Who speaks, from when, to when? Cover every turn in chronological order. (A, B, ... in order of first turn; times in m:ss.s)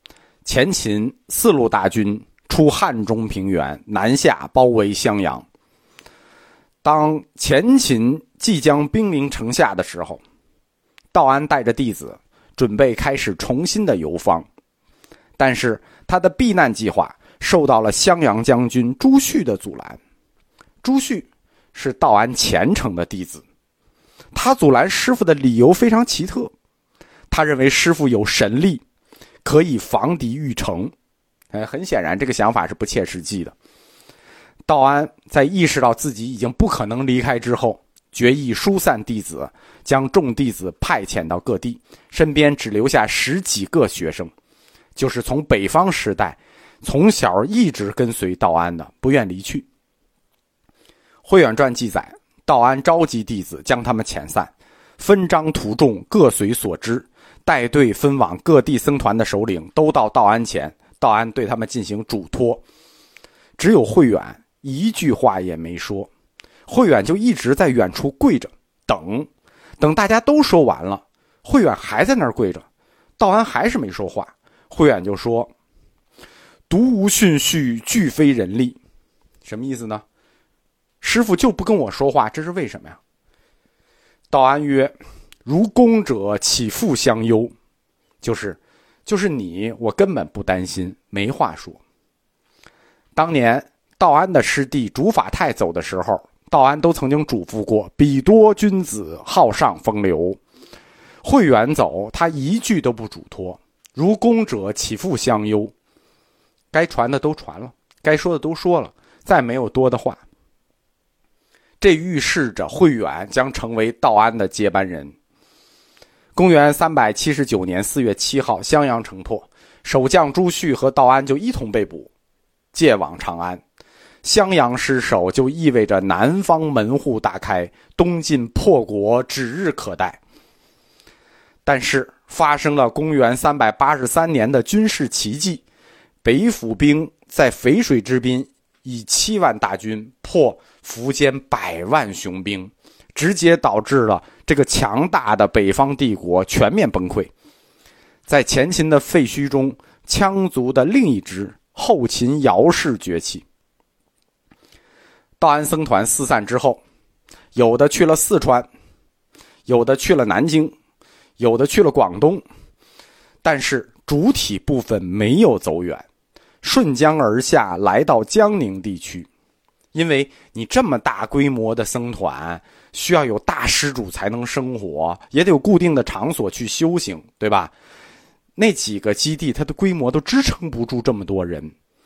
0:00.4-0:05.4 A
0:06.8-0:10.2 A
0:11.1-0:14.5 A
0:15.4-0:20.0 A
0:20.8-0:23.4 A
0:24.3-0:26.5 A
0:27.3-0:28.8 A
0:29.4-0:30.9 A
0:31.5-0:33.5 A
0:34.7-0:44.3 A
0:45.0-0:49.7 A
0:51.2-1:02.6 A
1:03.6-1:06.1 A
1:06.7-1:09.3 A
1:09.8-1:12.6 A
1:13.2-1:15.5 A
1:16.7-1:18.8 A
1:19.4-1:20.0 A
1:21.0-1:23.0 A
1:24.3-1:24.9 A
1:25.4-1:27.5 A
1:28.2-1:31.8 A
1:33.2-1:40.4 A
1:41.2-1:45.7 A
1:46.7-1:50.2 A
1:51.8-1:55.1 A
1:56.4-2:02.1 A
2:02.7-2:03.6 A
2:04.2-2:10.2 A
2:11.6-2:15.6 A
2:16.2-2:27.3 A
2:28.3-2:33.4 A
2:35.4-2:36.8 A
2:37.6-2:38.7 A
2:39.7-2:40.7 A
2:41.4-2:42.4 A
2:43.4-2:46.0 A
2:46.6-2:49.3 A
2:49.9-2:57.7 A
2:58.6-3:01.7 A